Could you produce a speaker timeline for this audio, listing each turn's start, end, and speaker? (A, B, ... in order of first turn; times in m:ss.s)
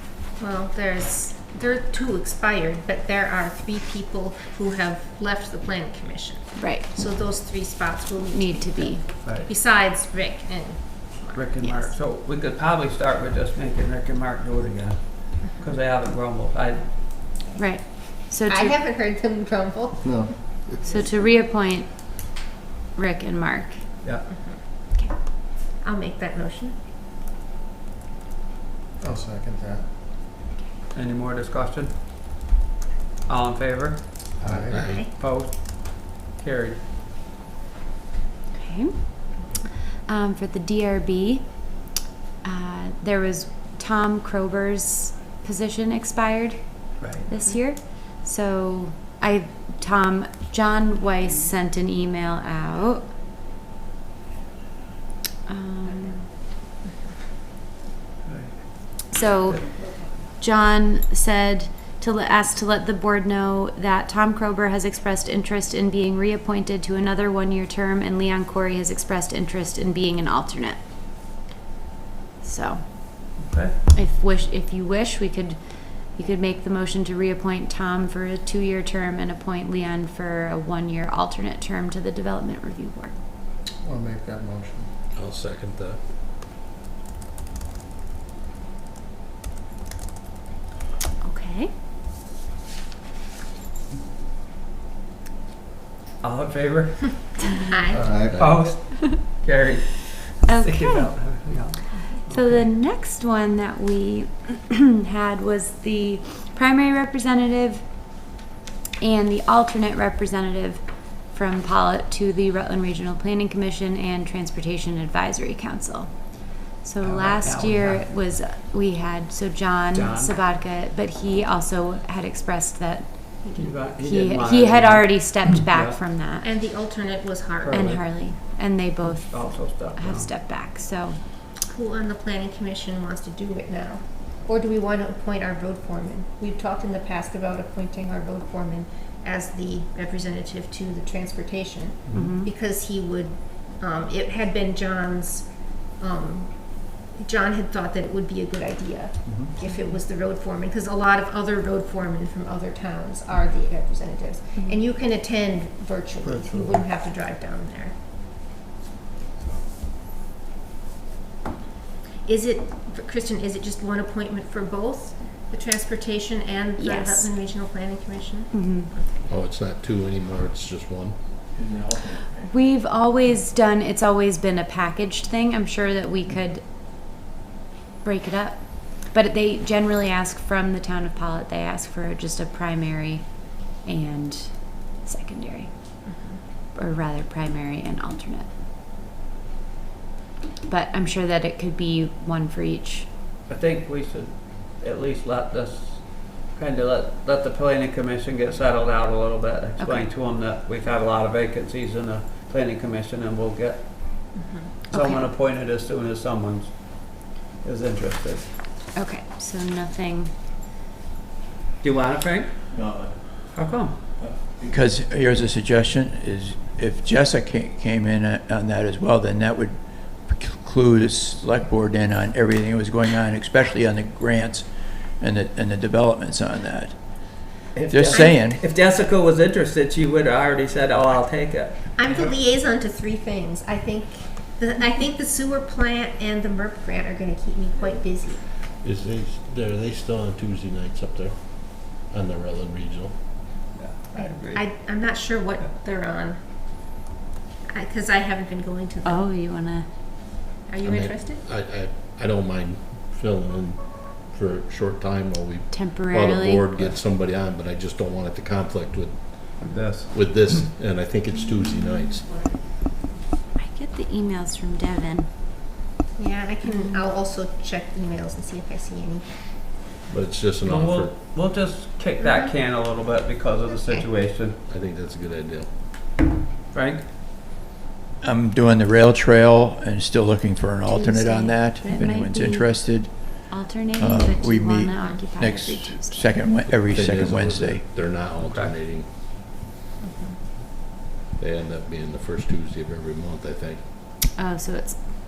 0:00.4-0:11.6 A
0:06.6-0:06.8 B
0:08.3-0:09.0 B
0:09.2-0:09.5 C
0:11.3-0:16.9 C
0:17.6-0:18.8 B
0:18.4-0:20.5 A
0:20.0-0:20.8 D
0:20.8-0:22.3 B
0:22.9-0:24.4 B
0:24.3-0:24.6 A
0:25.8-0:26.7 A
0:29.0-0:29.9 D
0:30.9-0:32.0 C
0:33.2-0:34.3 C
0:34.4-0:34.9 D
0:34.5-0:35.0 E
0:34.7-0:35.2 A
0:35.0-0:36.8 C
0:38.5-0:41.9 B
0:42.4-0:53.1 B
0:47.0-0:47.2 C
0:55.5-0:56.3 B
0:58.2-0:59.6 C
0:59.1-1:10.8 B
1:12.4-1:13.4 B
1:13.4-1:13.7 C
1:13.9-1:23.1 B
1:23.8-1:24.9 D
1:25.1-1:26.0 E
1:31.2-1:31.7 B
1:36.2-1:37.4 C
1:37.4-1:38.1 B
1:37.6-1:38.1 A
1:37.9-1:38.4 D
1:38.3-1:38.6 E
1:38.3-1:42.6 C
1:40.4-1:41.1 B
1:42.1-1:47.8 B
1:49.0-2:03.4 B
1:57.0-1:58.0 C
1:59.9-2:00.4 C
2:03.4-2:03.7 A
2:03.6-2:06.0 C
2:04.0-2:06.5 B
2:06.4-2:08.0 A
2:07.6-2:08.0 C
2:07.7-2:11.2 B
2:09.0-2:10.3 C
2:11.6-2:37.9 A
2:22.1-2:22.3 C
2:22.1-2:22.5 B
2:29.2-2:29.5 C
2:29.6-2:30.0 B
2:36.2-2:36.8 C
2:42.2-2:49.2 A
2:46.8-2:47.3 B
2:48.5-2:48.9 B
2:49.2-2:51.2 E
2:51.5-2:52.4 F
2:52.4-2:56.6 B
2:58.0-3:06.0 B
3:06.0-3:06.4 A
3:06.7-3:08.5 B
3:10.6-3:13.1 B
3:13.5-3:28.5 C
3:19.8-3:20.0 B
3:24.3-3:24.7 A
3:24.9-3:25.2 B
3:28.9-3:30.3 B
3:31.8-3:32.6 C
3:32.7-3:33.4 F
3:33.5-3:34.0 C
3:34.2-3:48.6 F
3:47.7-3:52.3 C
3:52.0-3:58.5 A
3:58.7-4:03.4 E
4:03.7-4:05.0 C
4:04.1-4:06.9 A
4:07.7-4:09.2 A
4:09.0-4:09.9 B
4:10.6-4:11.4 A
4:10.8-4:22.3 E
4:15.7-4:16.6 B
4:19.6-4:20.6 C
4:23.6-4:25.3 B
4:26.2-4:29.4 A
4:26.6-4:27.0 B
4:30.1-4:31.2 E
4:30.6-4:34.6 C
4:32.2-4:32.5 A
4:33.8-4:34.1 A
4:34.7-4:35.7 E
4:36.7-4:37.0 C
4:38.2-4:47.8 F
4:40.8-4:46.3 B
4:46.9-4:49.1 E
4:48.4-4:48.8 C
4:50.0-4:50.4 A
4:51.4-4:53.8 E
4:54.3-4:55.0 B